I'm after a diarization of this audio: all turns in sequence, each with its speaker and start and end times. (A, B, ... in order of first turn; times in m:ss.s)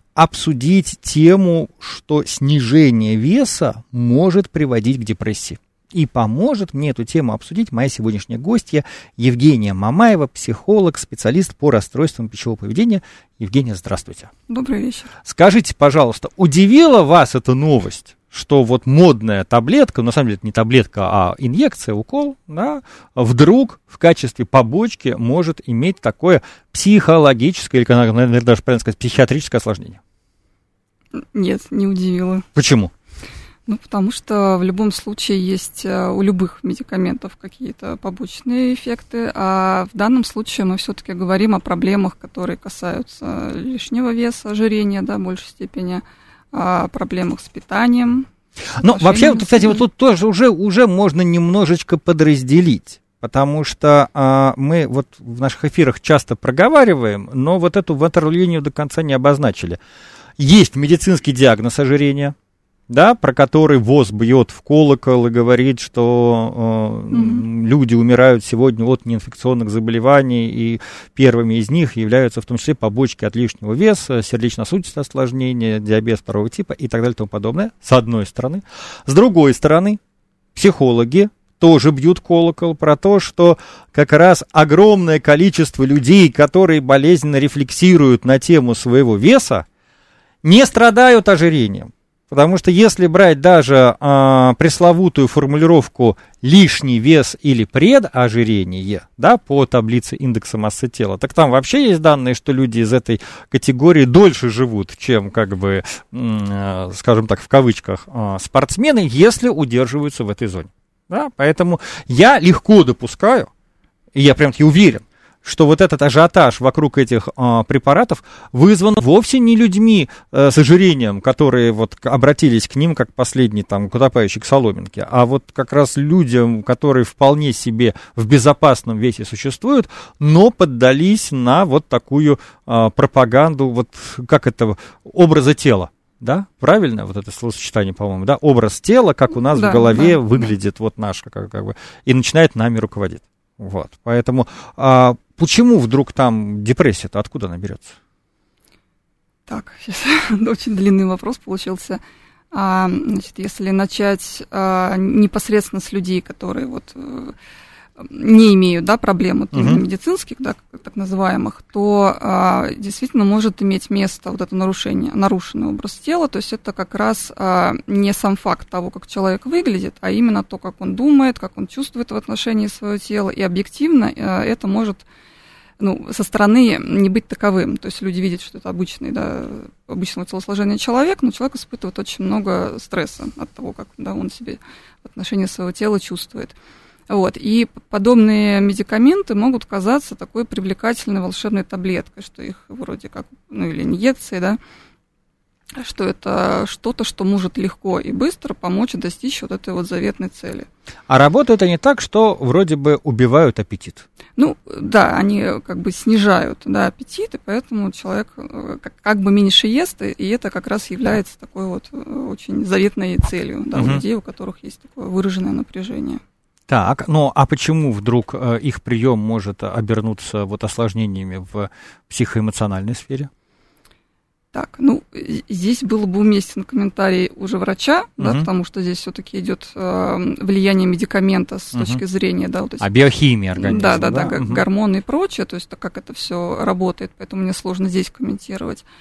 0:00.2-0:14.3 A
0:14.5-0:15.1 B
0:15.2-0:30.0 A
0:31.2-0:32.5 B
0:32.6-0:32.9 A
0:33.7-0:48.3 B
0:48.8-0:49.8 B
0:48.8-0:59.8 A
1:00.4-1:02.4 A
1:02.9-1:20.0 A
1:07.1-1:07.4 B
1:20.6-1:29.7 A
1:30.4-1:53.5 A
1:54.2-2:28.0 A
2:19.5-2:20.5 B
2:29.5-2:32.0 B
2:32.5-2:37.4 B
2:38.0-2:55.0 B
2:39.5-2:39.8 A
2:55.8-3:06.5 B
3:07.1-3:14.6 B
3:15.8-3:20.7 B
3:21.1-3:24.0 A
3:24.4-3:36.2 B
3:33.8-3:34.0 A
3:36.7-3:43.3 A
3:44.5-3:53.0 B
3:48.2-3:48.5 A
3:51.7-3:52.0 A
3:52.8-3:54.6 A
3:53.6-3:58.8 B